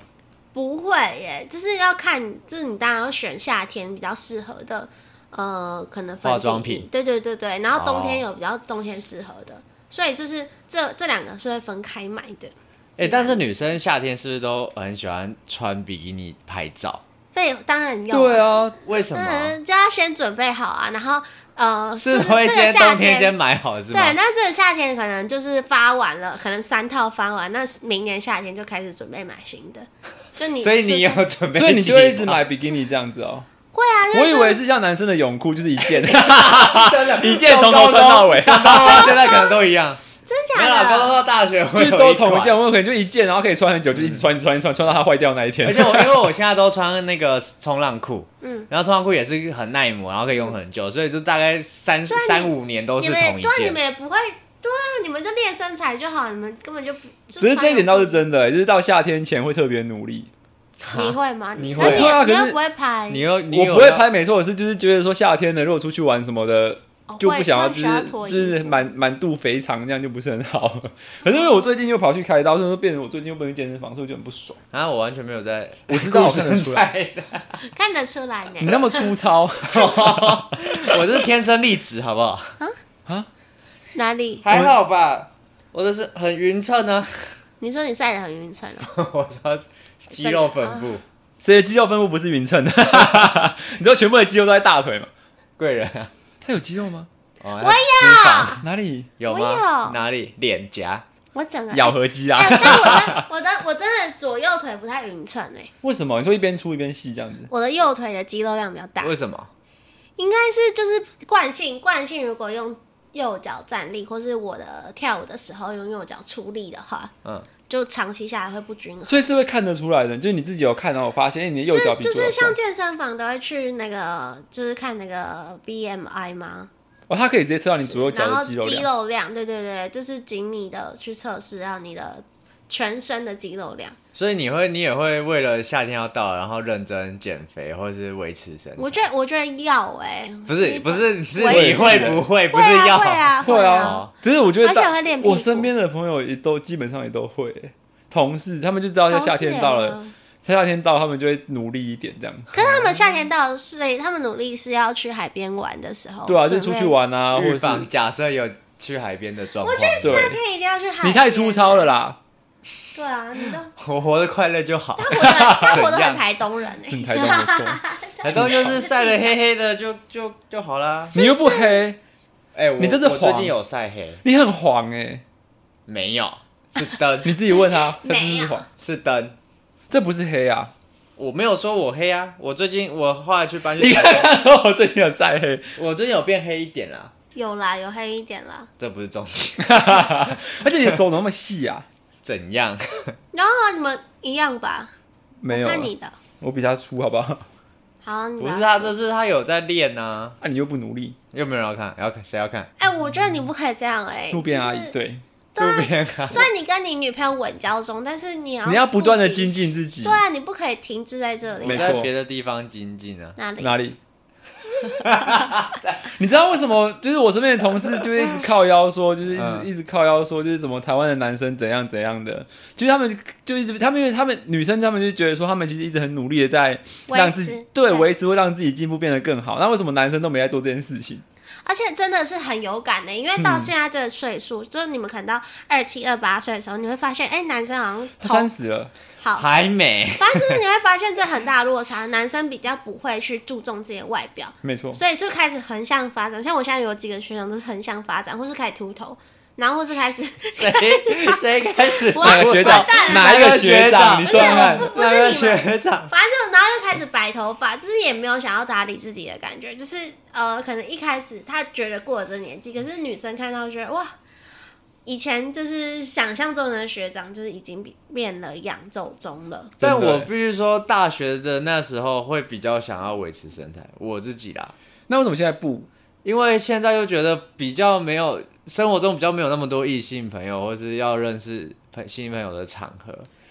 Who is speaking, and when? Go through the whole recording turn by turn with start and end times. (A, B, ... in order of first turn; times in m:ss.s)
0:00.5-0:13.4 A
0:06.2-0:06.9 B
0:07.7-0:08.2 B
0:13.0-0:17.0 B
0:17.3-0:23.3 A
0:18.1-0:18.8 C
0:18.8-0:19.5 B
0:22.0-0:24.2 B
0:23.9-0:31.2 A
0:30.6-0:32.4 B
0:31.5-0:33.5 C
0:33.7-0:34.6 A
0:34.1-0:39.2 C
0:35.8-0:40.0 B
0:38.8-0:39.6 A
0:40.2-0:41.2 A
0:40.5-0:42.6 B
0:41.7-0:46.3 C
0:43.9-0:44.2 B
0:45.6-0:53.8 B
0:48.4-0:48.7 A
0:52.1-0:58.2 A
0:57.4-1:00.3 C
1:00.8-1:02.2 B
1:00.9-1:03.2 A
1:01.8-1:02.6 C
1:03.1-1:04.0 B
1:03.5-1:14.6 C
1:07.1-1:08.9 A
1:11.3-1:11.7 A
1:14.7-1:17.6 B
1:15.9-1:16.8 C
1:17.6-1:19.1 A
1:18.6-1:21.0 C
1:19.6-1:22.6 B
1:23.9-1:24.4 A
1:24.4-1:27.3 B
1:24.5-1:24.7 C
1:27.6-1:28.9 A
1:28.8-1:31.0 B
1:30.1-1:30.9 A
1:31.4-1:35.1 C
1:35.6-1:36.1 B
1:36.4-1:37.1 C
1:37.4-1:38.6 B
1:37.6-1:38.6 A
1:38.6-1:39.1 C
1:39.2-1:41.0 B
1:39.3-1:40.0 A
1:41.3-1:45.7 A
1:41.7-1:43.2 C
1:42.6-1:43.1 B
1:45.8-1:47.5 C
1:47.5-1:49.1 A
1:49.0-1:49.5 B
1:50.2-1:57.1 A
1:57.7-1:59.3 A
1:59.0-2:02.6 C
2:01.6-2:06.7 A
2:07.1-2:08.9 C
2:07.9-2:14.0 A
2:14.1-2:19.0 B
2:18.8-2:24.1 A
2:20.5-2:24.1 B
2:21.4-2:22.2 C
2:23.4-2:32.5 C
2:24.6-2:25.7 A
2:29.1-2:30.1 A
2:32.5-2:37.0 A
2:32.6-2:33.0 B
2:36.2-2:37.9 C
2:37.3-2:40.2 B
2:39.6-2:41.9 A
2:40.0-2:40.4 C
2:41.0-2:42.2 C
2:42.9-2:43.7 A
2:43.8-2:46.2 B
2:45.0-2:49.3 A
2:45.1-2:45.8 C
2:46.9-2:48.8 C
2:48.2-2:51.1 B
2:51.1-2:52.0 C
2:51.1-2:51.9 A
2:52.5-2:54.2 B
2:52.8-2:53.5 C
2:54.2-2:55.2 C
2:55.9-2:57.4 B
2:57.2-2:58.6 C
2:57.6-2:58.6 A
2:58.8-2:59.3 B
2:59.9-3:00.7 C
3:01.2-3:04.3 B
3:03.8-3:05.7 C
3:05.8-3:07.1 B
3:07.3-3:08.7 A
3:08.8-3:10.3 B
3:09.6-3:11.8 C
3:12.2-3:13.1 B
3:13.3-3:14.9 A
3:15.4-3:17.4 C
3:15.5-3:16.2 A
3:18.0-3:18.9 A
3:18.4-3:20.4 B
3:20.4-3:21.2 C
3:21.3-3:22.7 B
3:22.8-3:24.9 A
3:24.3-3:25.2 C
3:25.5-3:32.0 A
3:25.6-3:26.5 B
3:28.6-3:30.2 C
3:31.6-3:33.4 B
3:31.6-3:32.1 C
3:33.4-3:33.8 A
3:33.6-3:34.0 C
3:34.7-3:36.1 B
3:36.2-3:51.2 C
3:39.3-3:39.7 B
3:47.1-3:48.1 A
3:51.6-3:58.5 A
3:53.4-3:53.7 C
3:58.2-3:58.9 C
3:59.2-3:59.4 A
3:59.4-4:00.6 B
4:00.2-4:11.4 A
4:04.6-4:05.0 C
4:10.5-4:16.1 B
4:11.9-4:13.6 A
4:12.2-4:14.9 C
4:14.2-4:24.1 A
4:25.0-4:29.7 A
4:29.8-4:30.3 C
4:29.8-4:34.7 B
4:35.1-4:35.9 C
4:36.2-4:43.3 B